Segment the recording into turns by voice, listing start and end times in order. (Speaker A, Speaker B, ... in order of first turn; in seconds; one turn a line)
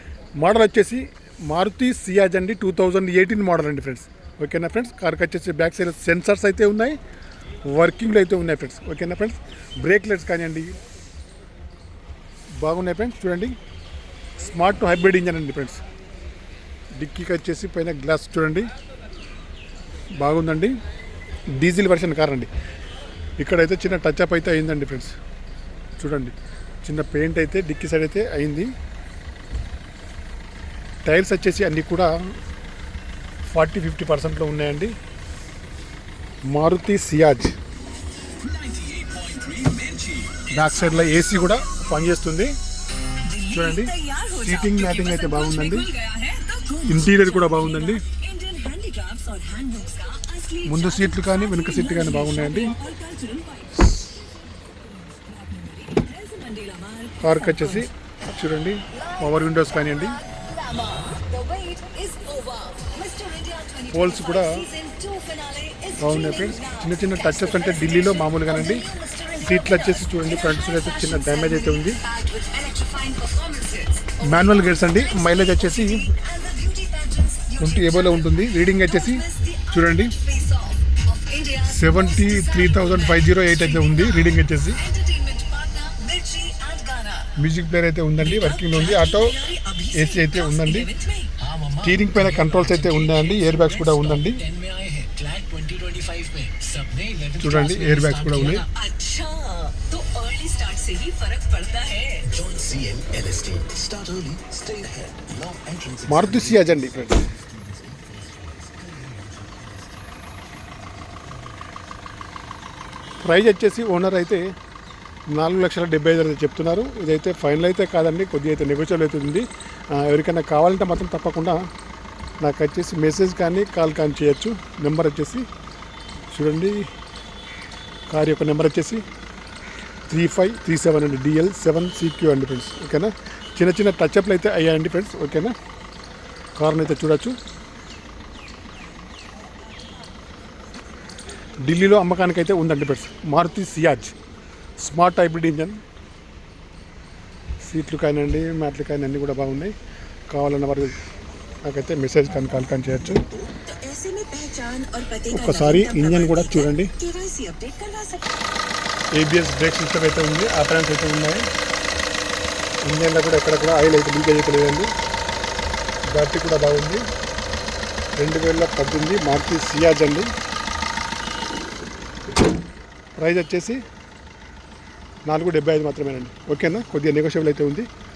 Speaker A: 0.4-7.0
Speaker A: 7.6-10.8
Speaker A: 12.6-13.6
Speaker A: 14.4-15.8
Speaker A: 16.9-18.7
Speaker A: 20.2-20.7
Speaker A: 21.5-22.5
Speaker A: 23.4-25.1
Speaker A: 26.0-28.7
Speaker A: 31.0-32.1
Speaker A: 33.5-34.9
Speaker A: 36.5-37.5
Speaker B: 38.4-40.5
Speaker A: 40.5-42.5
Speaker C: 43.3-53.9
Speaker A: 43.5-45.9
Speaker A: 46.9-48.0
Speaker A: 50.6-52.8
Speaker C: 54.9-57.9
Speaker A: 57.2-60.2
Speaker C: 58.9-59.3
Speaker C: 59.9-87.3
Speaker A: 63.9-64.6
Speaker A: 66.0-68.9
Speaker A: 69.4-72.0
Speaker A: 74.2-76.1
Speaker A: 77.6-80.1
Speaker A: 81.6-84.8
Speaker A: 87.3-89.4
Speaker C: 88.2-91.4
Speaker A: 89.9-90.9
Speaker B: 91.4-98.6
Speaker A: 91.8-94.4
Speaker A: 97.4-98.7
Speaker C: 98.7-102.3
Speaker B: 102.3-109.7
Speaker A: 106.0-107.3
Speaker A: 113.2-114.4
Speaker A: 115.3-121.6
Speaker A: 122.4-125.4
Speaker A: 126.3-126.8
Speaker A: 128.1-129.0
Speaker A: 130.1-135.5
Speaker A: 136.6-137.3
Speaker C: 139.2-140.1
Speaker A: 141.6-144.1
Speaker A: 144.8-145.8
Speaker A: 147.6-149.7
Speaker A: 150.3-150.9
Speaker A: 151.6-153.2
Speaker C: 153.7-158.5
Speaker A: 155.3-156.9
Speaker A: 159.1-161.5
Speaker A: 162.8-164.9
Speaker A: 166.1-167.0
Speaker A: 168.2-170.3
Speaker A: 173.2-173.8
Speaker A: 175.2-177.9